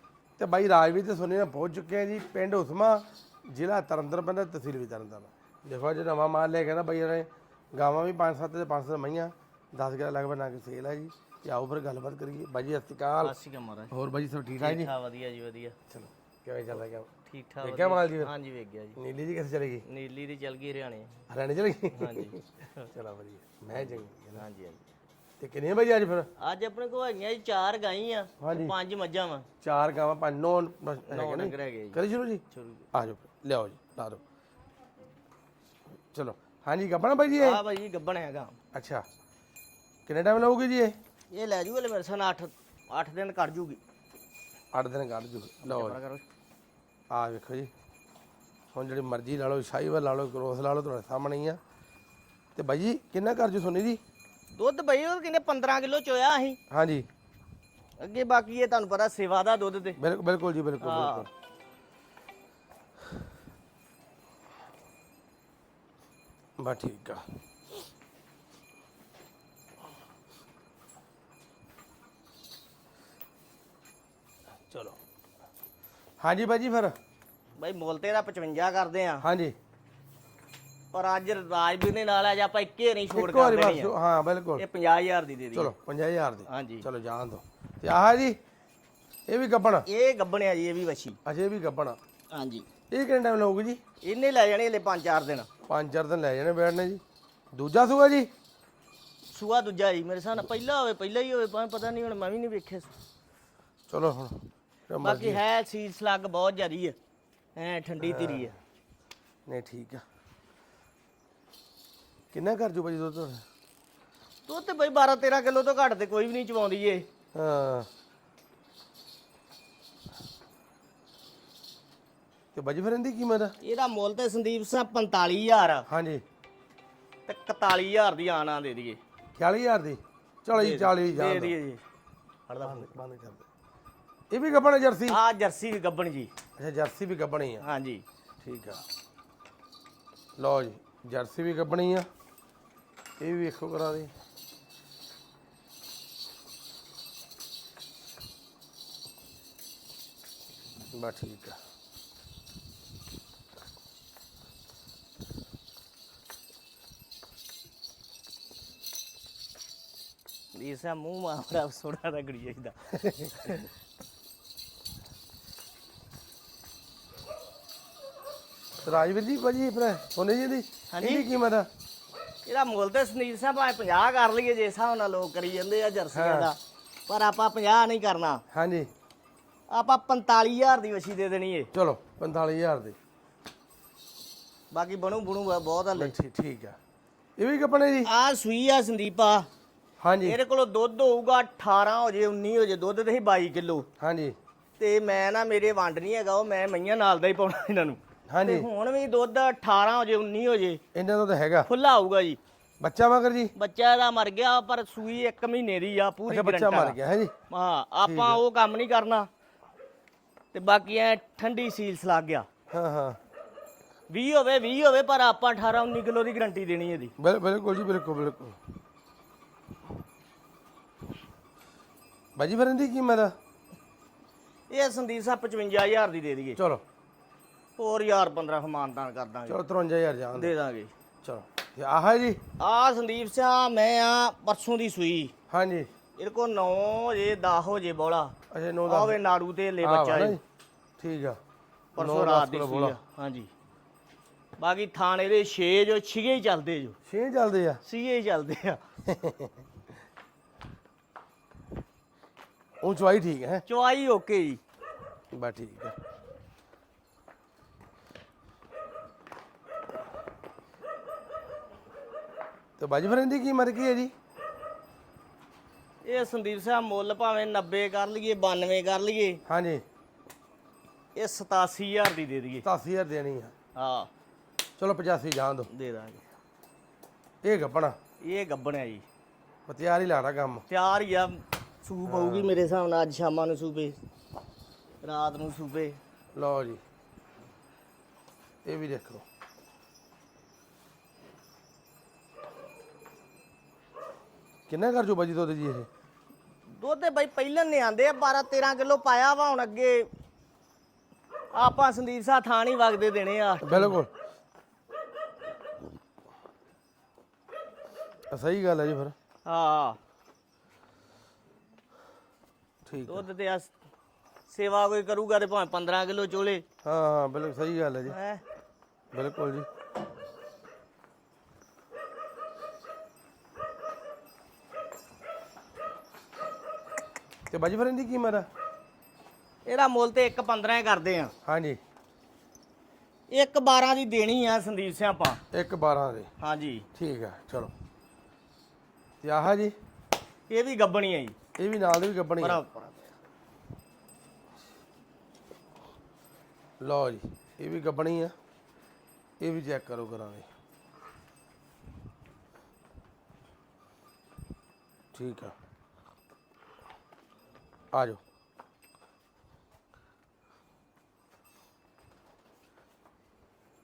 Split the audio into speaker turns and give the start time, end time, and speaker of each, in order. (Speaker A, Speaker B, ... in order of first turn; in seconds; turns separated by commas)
Speaker A: 0.4-13.3, Speaker B: 13.2-13.9, Speaker A: 13.9-14.9, Speaker B: 14.6-15.8, Speaker A: 15.9-18.3, Speaker B: 17.3-19.0, Speaker A: 19.0-19.8, Speaker B: 19.9-21.2, Speaker A: 21.3-24.4, Speaker B: 21.9-22.9, Speaker B: 23.7-24.8, Speaker A: 25.4-26.3, Speaker B: 26.4-29.5, Speaker A: 28.4-28.7, Speaker A: 29.6-34.2, Speaker B: 31.1-32.8, Speaker A: 36.1-37.6, Speaker B: 37.4-38.6, Speaker A: 38.7-39.0, Speaker A: 40.0-41.0, Speaker B: 41.3-43.8, Speaker A: 44.7-46.0, Speaker B: 45.6-46.2, Speaker A: 47.1-47.7, Speaker A: 48.7-51.6, Speaker A: 52.5-54.0, Speaker B: 54.5-56.6, Speaker A: 56.7-57.1, Speaker B: 58.0-60.0, Speaker A: 60.0-61.3, Speaker B: 60.8-61.3, Speaker A: 66.6-67.2, Speaker A: 74.7-75.0, Speaker A: 76.2-76.9, Speaker B: 77.6-79.2, Speaker A: 79.2-79.5, Speaker B: 80.9-83.9, Speaker A: 83.1-84.6, Speaker B: 84.6-85.7, Speaker A: 85.5-88.4, Speaker B: 86.5-86.8, Speaker A: 89.3-89.9, Speaker B: 89.8-91.2, Speaker A: 91.2-92.0, Speaker B: 92.3-92.7, Speaker A: 92.9-93.8, Speaker B: 94.0-95.5, Speaker A: 95.7-97.0, Speaker A: 97.5-98.3, Speaker B: 99.3-102.9, Speaker A: 103.9-105.4, Speaker B: 105.0-107.0, Speaker B: 107.5-108.5, Speaker A: 108.0-108.5, Speaker A: 109.5-110.0, Speaker A: 112.3-113.4, Speaker B: 114.5-117.0, Speaker A: 117.3-117.9, Speaker A: 122.5-123.5, Speaker B: 123.6-125.8, Speaker A: 125.9-126.2, Speaker B: 127.3-129.0, Speaker A: 129.4-131.5, Speaker B: 130.5-131.8, Speaker B: 132.5-132.9, Speaker A: 132.6-133.4, Speaker A: 134.3-135.2, Speaker B: 135.1-136.3, Speaker A: 136.6-137.7, Speaker B: 137.6-138.0, Speaker A: 138.4-138.8, Speaker A: 140.4-142.1, Speaker A: 143.2-144.1, Speaker A: 150.9-151.6, Speaker B: 160.5-163.7, Speaker A: 168.8-171.7, Speaker B: 170.9-171.3, Speaker B: 172.4-178.4, Speaker A: 176.1-176.5, Speaker A: 178.5-178.9, Speaker B: 179.7-181.7, Speaker A: 181.7-182.9, Speaker B: 184.7-186.1, Speaker A: 185.9-186.8, Speaker A: 187.4-188.1, Speaker B: 188.0-189.5, Speaker A: 190.0-190.4, Speaker B: 190.2-193.9, Speaker A: 194.0-194.3, Speaker B: 194.8-200.8, Speaker A: 198.3-198.7, Speaker A: 200.9-201.7, Speaker B: 201.7-202.4, Speaker A: 202.8-203.5, Speaker B: 203.6-207.0, Speaker A: 206.3-207.3, Speaker B: 207.5-209.3, Speaker A: 208.0-208.4, Speaker B: 210.5-212.5, Speaker A: 212.7-213.2, Speaker B: 214.1-217.1, Speaker A: 217.2-218.6, Speaker A: 222.3-223.3, Speaker B: 224.7-226.6, Speaker A: 226.6-226.8, Speaker B: 227.8-229.6, Speaker A: 229.5-230.5, Speaker B: 230.3-230.9, Speaker A: 231.2-232.4, Speaker B: 232.6-235.3, Speaker A: 235.5-235.9, Speaker B: 236.2-238.3, Speaker A: 238.5-239.2, Speaker B: 238.9-240.4, Speaker A: 239.8-240.4, Speaker A: 241.0-241.4, Speaker A: 241.9-243.0, Speaker B: 241.9-243.5, Speaker B: 244.6-247.0, Speaker A: 247.1-247.8, Speaker B: 247.8-248.8, Speaker A: 249.1-249.5, Speaker A: 252.8-253.6, Speaker B: 253.7-254.6, Speaker A: 255.3-255.9, Speaker A: 262.8-264.1, Speaker B: 266.0-269.4, Speaker A: 269.5-269.8, Speaker B: 271.1-272.6, Speaker A: 272.6-273.5, Speaker B: 273.7-274.1, Speaker A: 274.8-275.7, Speaker B: 275.7-276.2, Speaker A: 277.4-278.0, Speaker B: 278.2-279.0, Speaker A: 279.7-280.6, Speaker B: 280.7-284.0, Speaker A: 282.1-282.5, Speaker B: 285.0-286.0, Speaker A: 286.3-286.8, Speaker A: 288.6-289.2, Speaker A: 294.7-295.9, Speaker B: 296.7-300.1, Speaker B: 301.5-304.0, Speaker A: 303.6-304.1, Speaker A: 308.3-309.1, Speaker B: 309.4-310.0, Speaker A: 312.9-313.2, Speaker B: 313.1-313.7, Speaker B: 314.5-316.6, Speaker A: 316.8-318.1, Speaker B: 318.1-318.4, Speaker A: 319.1-319.7, Speaker A: 327.5-328.5, Speaker B: 329.6-331.3, Speaker A: 331.4-331.8, Speaker B: 333.3-335.4, Speaker A: 335.5-336.3, Speaker B: 336.4-336.9, Speaker A: 336.9-337.7, Speaker A: 339.2-339.7, Speaker B: 340.5-341.4, Speaker A: 341.6-342.6, Speaker B: 342.4-343.1, Speaker A: 346.8-348.3, Speaker A: 349.4-350.5, Speaker A: 355.1-355.5, Speaker A: 357.9-358.2